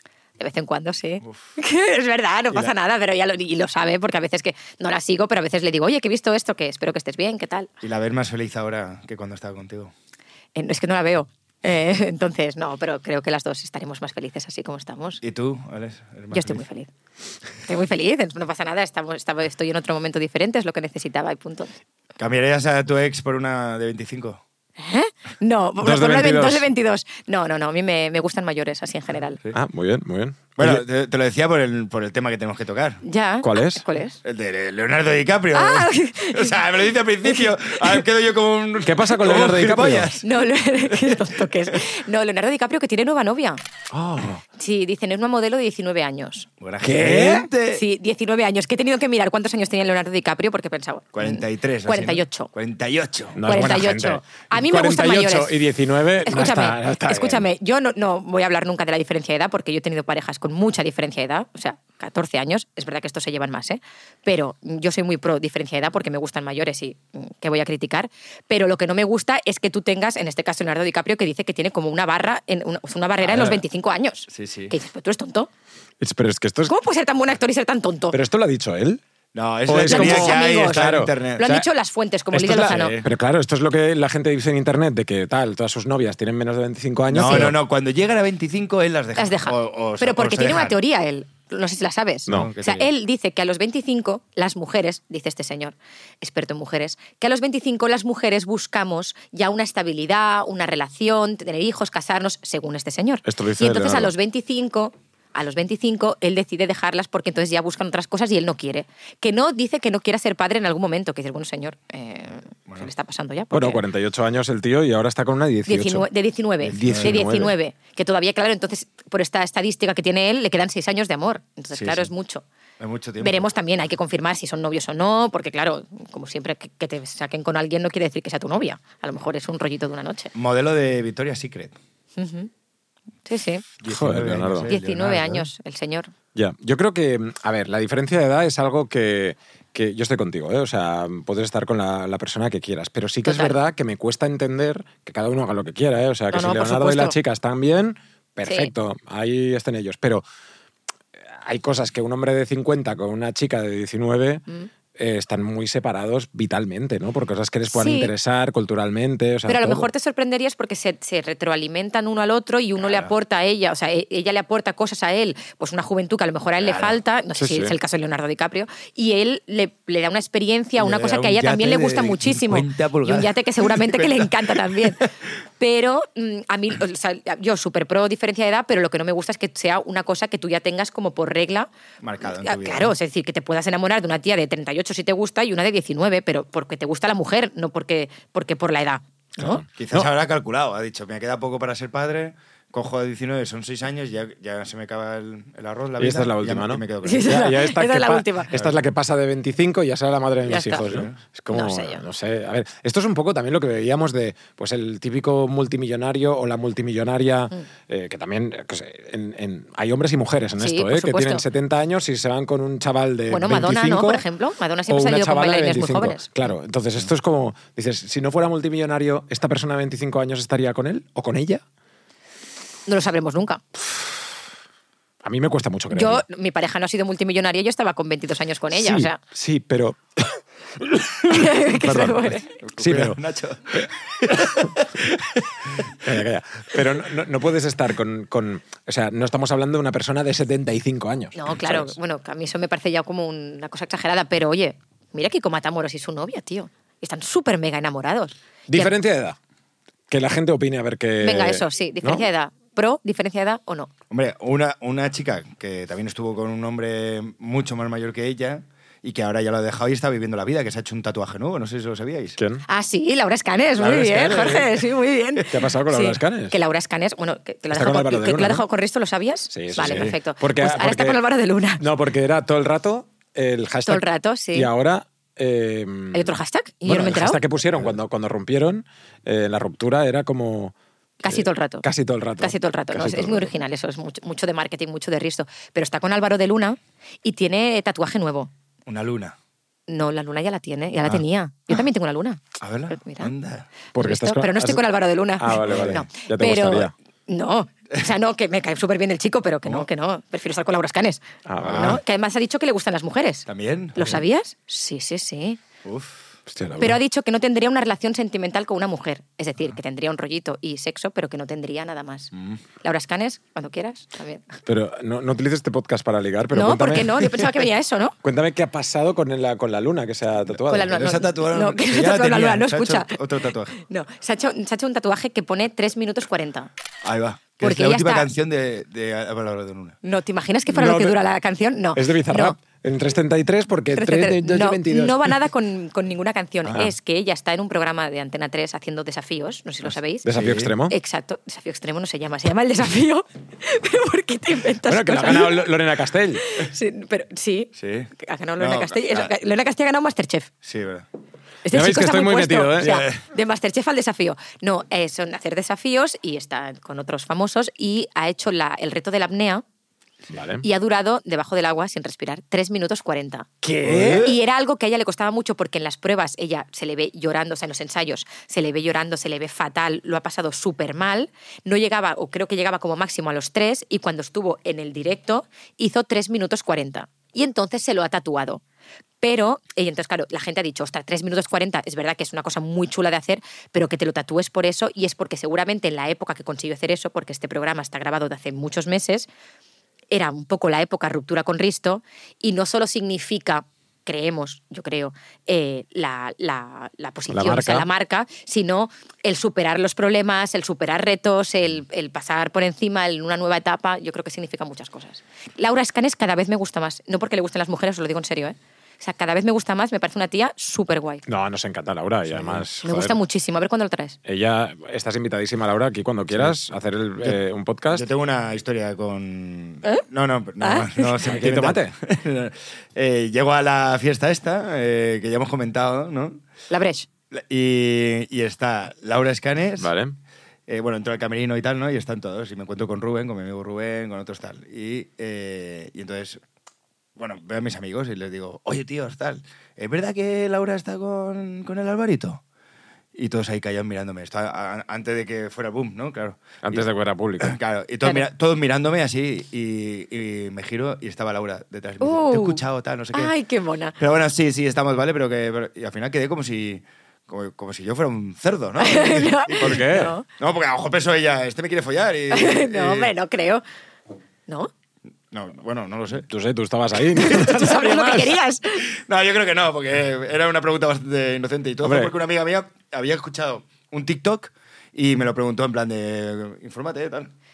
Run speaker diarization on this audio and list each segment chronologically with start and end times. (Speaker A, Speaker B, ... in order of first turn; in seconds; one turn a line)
Speaker A: 0.4-7.7
Speaker B: 7.8-9.9
Speaker A: 10.5-15.2
Speaker B: 15.2-16.6
Speaker A: 16.3-16.9
Speaker A: 17.6-21.7
Speaker B: 22.2-24.4
Speaker A: 24.8-29.4
Speaker C: 25.8-26.7
Speaker C: 29.5-30.8
Speaker B: 30.6-33.0
Speaker A: 33.0-34.2
Speaker C: 33.4-33.8
Speaker B: 34.2-40.3
Speaker A: 35.5-36.6
Speaker A: 37.2-38.0
Speaker C: 38.8-40.2
Speaker A: 40.2-43.6
Speaker B: 40.9-41.7
Speaker C: 43.9-44.4
Speaker A: 44.5-46.5
Speaker B: 46.6-47.8
Speaker C: 46.8-47.5
Speaker A: 47.7-52.5
Speaker B: 51.1-53.4
Speaker C: 53.4-57.4
Speaker A: 53.4-55.6
Speaker A: 56.2-75.5
Speaker C: 73.3-73.6
Speaker B: 74.3-74.7
Speaker C: 76.0-76.7
Speaker A: 76.7-78.2
Speaker C: 78.1-79.0
Speaker B: 79.3-81.6
Speaker C: 79.7-81.6
Speaker A: 79.8-83.0
Speaker C: 82.3-87.6
Speaker B: 82.5-83.1
Speaker B: 87.1-90.8
Speaker A: 89.2-113.8
Speaker C: 92.3-92.5
Speaker B: 92.3-92.9
Speaker C: 103.2-104.1
Speaker C: 113.5-116.1
Speaker A: 115.7-122.4
Speaker C: 116.6-117.5
Speaker B: 116.7-117.3
Speaker B: 121.7-122.1
Speaker B: 122.8-123.5
Speaker A: 123.2-130.3
Speaker B: 130.3-131.8
Speaker A: 132.2-132.5
Speaker A: 133.2-133.6
Speaker B: 133.8-135.5
Speaker C: 133.8-134.7
Speaker A: 134.7-136.1
Speaker C: 136.3-150.2
Speaker A: 143.2-143.6
Speaker A: 146.3-147.2
Speaker A: 148.4-148.7
Speaker C: 151.3-154.4
Speaker C: 154.9-159.9
Speaker A: 157.7-158.1
Speaker A: 159.5-181.7
Speaker B: 162.8-163.1
Speaker B: 166.6-167.0
Speaker C: 167.4-167.8
Speaker B: 170.8-175.0
Speaker B: 182.0-182.9
Speaker A: 182.2-189.6
Speaker C: 189.4-190.1
Speaker B: 189.8-197.4
Speaker C: 196.0-214.2
Speaker A: 197.0-198.5
Speaker A: 200.4-200.9
Speaker B: 200.8-201.2
Speaker A: 201.5-202.0
Speaker A: 210.6-211.4
Speaker A: 213.3-216.3
Speaker C: 214.9-221.6
Speaker A: 222.9-223.6
Speaker C: 225.2-226.2
Speaker A: 225.9-229.2
Speaker C: 228.7-233.2
Speaker A: 231.2-232.5
Speaker B: 232.6-236.1
Speaker C: 233.7-234.8
Speaker C: 235.8-241.9
Speaker A: 241.3-248.9
Speaker C: 248.7-249.4
Speaker C: 250.1-252.3
Speaker A: 251.2-253.9
Speaker B: 254.1-262.4
Speaker C: 262.4-262.6
Speaker A: 262.7-271.8
Speaker C: 263.8-264.8
Speaker C: 265.4-266.6
Speaker C: 267.7-268.6
Speaker C: 269.5-271.2
Speaker B: 269.7-270.1
Speaker C: 271.8-283.5
Speaker A: 273.9-274.7
Speaker A: 276.1-277.4
Speaker B: 277.7-278.0
Speaker A: 281.2-281.9
Speaker A: 282.4-288.5
Speaker B: 288.9-289.4
Speaker A: 289.9-293.3
Speaker B: 292.6-293.7
Speaker C: 293.9-294.8
Speaker A: 294.0-305.6
Speaker C: 295.4-296.9
Speaker B: 295.6-296.1
Speaker C: 301.4-302.0
Speaker B: 301.6-302.0
Speaker B: 303.5-304.1
Speaker B: 305.8-306.3
Speaker C: 306.5-307.0
Speaker A: 306.8-314.6
Speaker B: 312.3-312.6
Speaker C: 314.6-317.6
Speaker A: 316.5-318.1
Speaker C: 318.2-320.9
Speaker B: 320.5-323.8
Speaker A: 320.7-323.2
Speaker A: 323.7-326.7
Speaker B: 327.0-330.0
Speaker A: 327.6-328.3
Speaker A: 330.0-332.6
Speaker C: 330.7-331.2
Speaker C: 331.9-335.4
Speaker A: 333.9-340.3
Speaker C: 340.2-340.9
Speaker B: 340.3-340.7
Speaker A: 340.9-345.7
Speaker C: 344.8-346.4
Speaker A: 346.4-350.5
Speaker B: 347.8-349.3
Speaker B: 350.6-351.1
Speaker A: 351.6-359.6
Speaker C: 351.7-353.0
Speaker B: 352.8-353.2
Speaker C: 360.3-360.6
Speaker A: 360.6-363.5
Speaker C: 363.6-364.3
Speaker B: 363.8-364.3
Speaker A: 364.0-378.6
Speaker A: 379.2-389.3
Speaker A: 390.1-411.2
Speaker C: 397.3-397.9
Speaker C: 411.2-413.2
Speaker B: 412.3-412.6
Speaker A: 412.8-414.2
Speaker C: 414.2-418.1
Speaker B: 417.9-426.4
Speaker A: 420.6-421.1
Speaker C: 421.2-421.9
Speaker A: 426.7-427.1
Speaker B: 427.3-429.9
Speaker C: 429.8-430.1
Speaker B: 430.7-436.4
Speaker B: 437.2-442.4
Speaker B: 443.1-446.9
Speaker C: 446.6-447.6
Speaker B: 447.4-453.3
Speaker A: 452.0-452.6
Speaker A: 453.1-453.9
Speaker B: 454.0-459.9
Speaker A: 458.8-460.2
Speaker C: 459.6-460.1
Speaker B: 460.4-463.1
Speaker A: 462.3-463.6
Speaker B: 465.3-466.3
Speaker C: 466.3-468.4
Speaker A: 467.1-468.9
Speaker B: 468.9-477.3
Speaker C: 471.8-472.1